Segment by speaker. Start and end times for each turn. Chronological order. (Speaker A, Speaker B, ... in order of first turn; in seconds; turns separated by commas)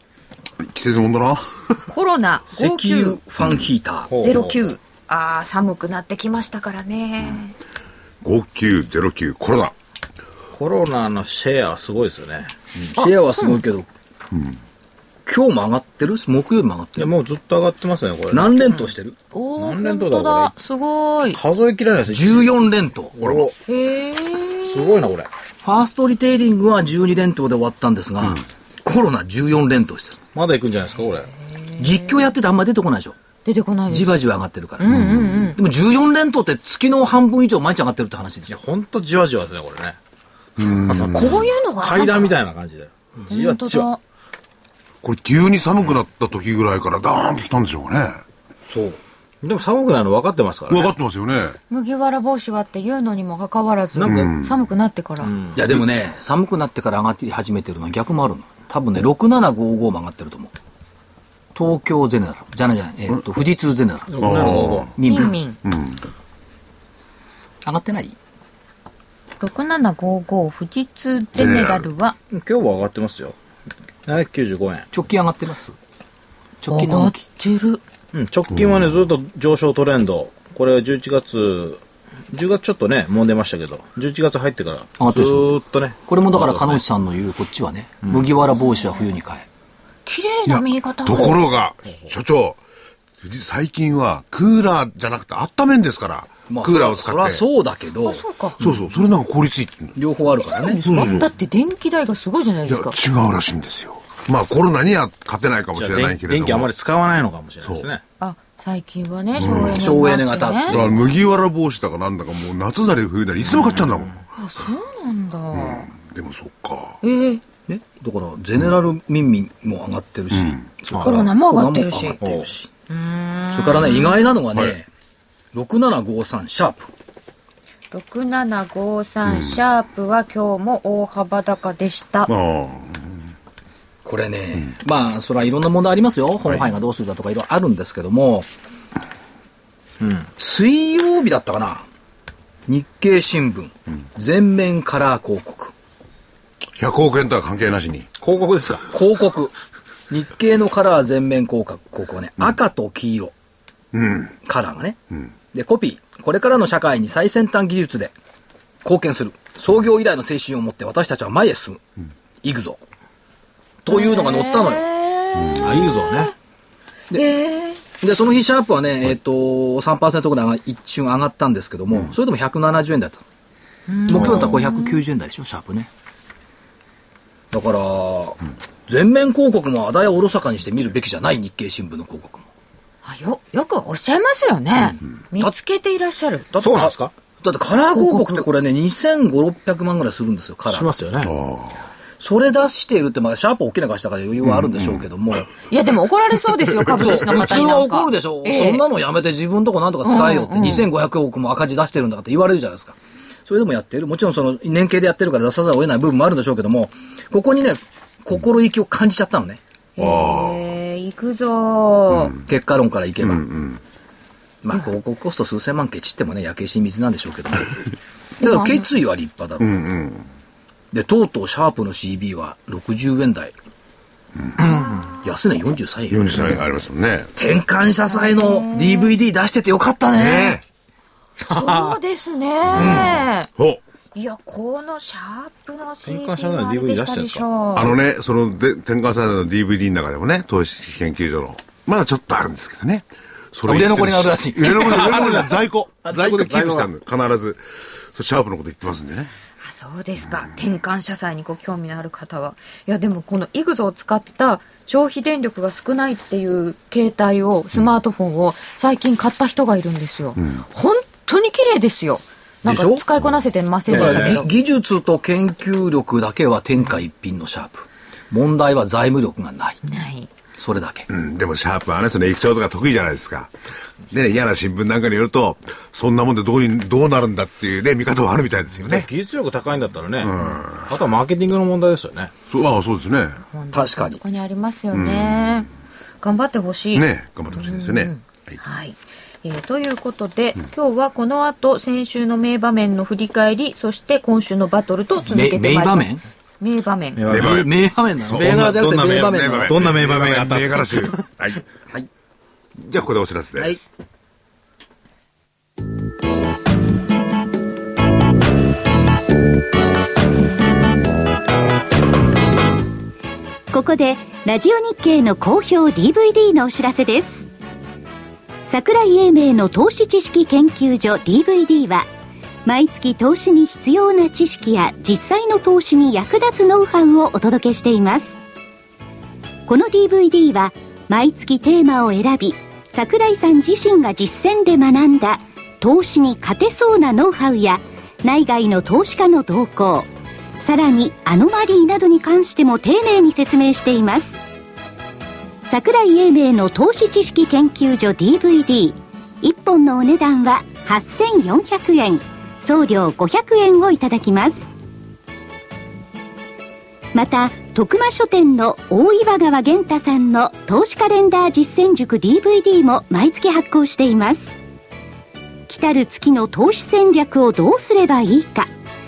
Speaker A: 0.6-1.8, Speaker B: 1.9-3.2, Speaker C: 2.5-4.1, Speaker D: 4.1-4.6, Speaker B: 4.2-7.5, Speaker A: 8.2-9.7, Speaker D: 10.5-12.5, Speaker C: 12.8-13.9, Speaker B: 13.0-13.6, Speaker C: 15.2-17.1, Speaker D: 17.0-18.9, Speaker C: 18.3-19.2, Speaker B: 19.3-21.4, Speaker D: 19.6-20.5, Speaker D: 21.3-22.5, Speaker C: 22.1-23.1, Speaker D: 23.1-23.5, Speaker A: 23.2-23.5, Speaker B: 23.7-25.1, Speaker D: 24.6-25.3, Speaker C: 25.6-30.2, Speaker D: 30.3-31.3, Speaker B: 31.8-32.0, Speaker C: 31.8-33.1, Speaker B: 33.4-34.2, Speaker C: 33.9-38.6, Speaker B: 34.8-35.6, Speaker D: 38.5-40.0, Speaker A: 40.6-41.2, Speaker D: 40.9-43.9, Speaker B: 41.0-42.3, Speaker B: 43.3-44.0, Speaker A: 45.0-48.2, Speaker C: 48.7-49.0, Speaker D: 49.4-50.9, Speaker A: 50.7-51.6, Speaker B: 51.7-55.3, Speaker D: 54.0-54.3, Speaker A: 54.0-54.5, Speaker D: 55.2-55.6, Speaker C: 55.5-60.5, Speaker C: 61.5-64.2, Speaker D: 64.1-64.9, Speaker A: 64.2-64.9, Speaker C: 65.0-65.3, Speaker B: 65.0-65.6, Speaker A: 65.6-66.0, Speaker C: 67.6-68.2, Speaker B: 69.4-72.2, Speaker A: 71.3-71.9, Speaker D: 72.3-73.3, Speaker D: 74.0-74.8, Speaker C: 74.9-75.8, Speaker C: 76.6-77.2, Speaker B: 76.7-77.8, Speaker D: 78.1-86.8, Speaker C: 85.0-85.5, Speaker C: 86.1-89.5, Speaker B: 88.5-89.0, Speaker B: 90.0-91.4, Speaker A: 90.5-92.6, Speaker A: 93.2-97.4, Speaker C: 96.5-98.2, Speaker B: 98.0-98.6, Speaker A: 98.6-100.0, Speaker C: 100.0-100.8, Speaker B: 100.4-103.0, Speaker A: 100.8-101.2, Speaker D: 101.0-101.2, Speaker A: 102.7-106.7, Speaker D: 105.7-108.0, Speaker B: 108.2-110.8, Speaker A: 109.4-109.9, Speaker C: 109.4-111.1, Speaker A: 110.7-114.2, Speaker B: 114.3-115.9, Speaker A: 115.5-117.0, Speaker B: 117.0-117.4, Speaker C: 117.7-122.7, Speaker B: 121.0-122.2, Speaker D: 122.2-122.5, Speaker B: 122.9-124.2, Speaker C: 123.5-124.9, Speaker C: 125.5-126.9, Speaker B: 127.9-132.3, Speaker A: 129.3-129.5, Speaker A: 132.3-133.2, Speaker C: 134.0-138.5, Speaker D: 140.0-140.3, Speaker C: 140.4-141.8, Speaker C: 142.7-145.7, Speaker A: 146.8-148.1, Speaker D: 148.2-148.8, Speaker C: 148.9-149.5, Speaker C: 150.1-153.3, Speaker A: 153.9-154.3, Speaker C: 154.4-155.0, Speaker C: 155.5-158.1, Speaker C: 158.8-161.8, Speaker C: 162.4-162.8, Speaker C: 163.8-164.9, Speaker B: 163.9-166.3, Speaker D: 165.6-166.3, Speaker B: 167.1-167.8, Speaker C: 168.0-173.2, Speaker B: 173.9-175.0, Speaker C: 174.1-175.9, Speaker D: 174.1-174.4, Speaker C: 177.5-182.4, Speaker B: 183.0-186.5, Speaker C: 184.8-185.5, Speaker C: 186.5-190.9, Speaker D: 186.6-187.1, Speaker B: 187.9-188.5, Speaker D: 190.7-191.3, Speaker A: 191.2-191.8, Speaker C: 192.2-195.5, Speaker A: 194.6-195.0, Speaker B: 195.7-198.8, Speaker C: 196.9-209.6, Speaker B: 200.0-200.8, Speaker A: 200.6-200.9, Speaker B: 209.9-212.4, Speaker A: 210.0-210.6, Speaker C: 212.4-213.4, Speaker A: 213.3-213.8, Speaker C: 214.6-217.8, Speaker B: 218.4-218.9, Speaker C: 218.4-219.8, Speaker A: 219.6-220.3, Speaker C: 220.9-223.5, Speaker B: 224.6-225.1, Speaker D: 224.8-225.1, Speaker C: 225.2-226.6, Speaker A: 226.1-227.3, Speaker C: 227.3-230.6, Speaker B: 228.1-229.1, Speaker A: 230.2-230.6, Speaker B: 231.4-233.5, Speaker D: 231.5-231.9, Speaker A: 232.7-233.8, Speaker C: 232.8-233.1, Speaker B: 234.1-237.9, Speaker D: 236.0-237.5, Speaker A: 237.7-247.6, Speaker C: 243.6-245.5, Speaker D: 244.9-245.5, Speaker D: 246.1-246.9, Speaker A: 248.1-249.3, Speaker B: 249.6-264.5, Speaker C: 262.6-263.0, Speaker C: 263.9-269.8, Speaker D: 263.9-264.4, Speaker B: 269.8-270.3, Speaker C: 270.6-271.1, Speaker A: 271.1-273.5, Speaker A: 274.1-279.1, Speaker D: 278.8-282.3, Speaker A: 280.2-280.9, Speaker A: 282.5-283.4, Speaker B: 283.5-285.7, Speaker C: 283.7-284.2, Speaker A: 284.9-285.4, Speaker B: 286.2-297.2, Speaker A: 286.9-288.6, Speaker C: 295.2-296.2, Speaker D: 297.1-297.7, Speaker C: 297.3-299.8, Speaker A: 297.3-301.6, Speaker D: 298.3-301.2, Speaker A: 302.8-303.8, Speaker C: 303.5-303.8, Speaker E: 313.7-317.4, Speaker E: 318.7-322.1, Speaker E: 322.6-328.4, Speaker E: 329.6-344.4, Speaker E: 345.7-354.7, Speaker E: 357.1-364.5, Speaker E: 365.7-368.7